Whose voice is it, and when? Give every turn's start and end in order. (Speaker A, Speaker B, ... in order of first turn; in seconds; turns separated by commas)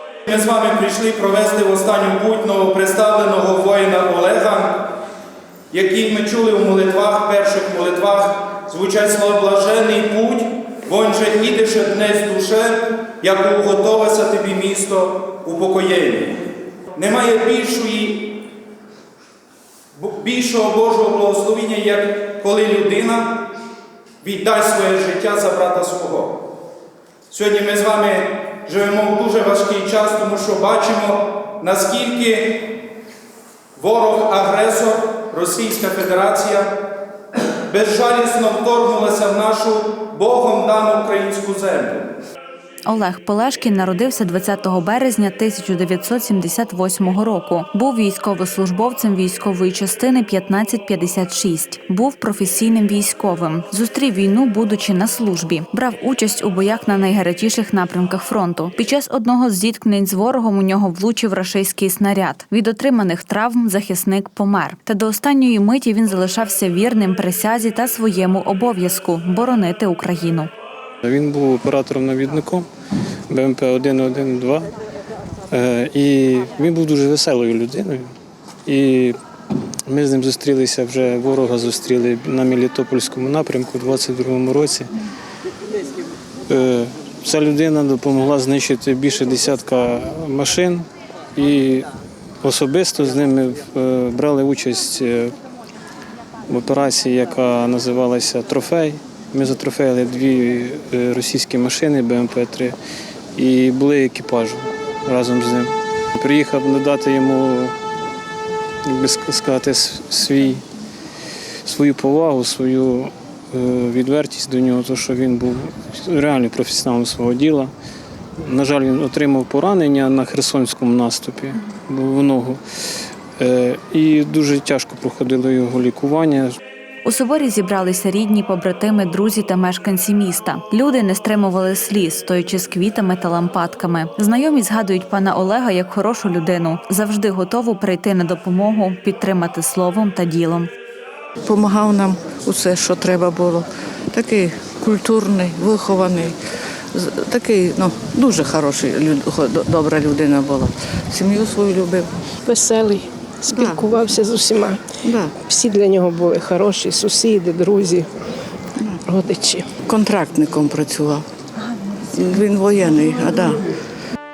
Speaker A: 0.3-4.9, Speaker A: 5.7-16.4, Speaker A: 16.9-18.4, Speaker A: 19.9-23.4, Speaker A: 24.2-26.4, Speaker A: 27.3-32.7, Speaker A: 33.8-36.8, Speaker A: 37.7-42.1, Speaker B: 42.9-70.5, Speaker C: 71.0-72.7, Speaker C: 73.3-74.7, Speaker C: 75.5-78.1, Speaker C: 78.7-79.2, Speaker C: 79.9-84.9, Speaker C: 86.5-91.9, Speaker C: 92.4-95.3, Speaker C: 96.5-102.8, Speaker C: 103.3-107.7, Speaker C: 108.8-110.6, Speaker C: 111.6-117.7, Speaker C: 118.4-122.6, Speaker C: 123.4-126.6, Speaker B: 127.0-140.7, Speaker D: 141.4-146.3, Speaker D: 146.9-152.1, Speaker E: 152.4-158.1, Speaker D: 153.5-153.9, Speaker D: 155.0-155.4, Speaker E: 159.1-159.7, Speaker D: 159.8-161.2, Speaker D: 162.1-163.7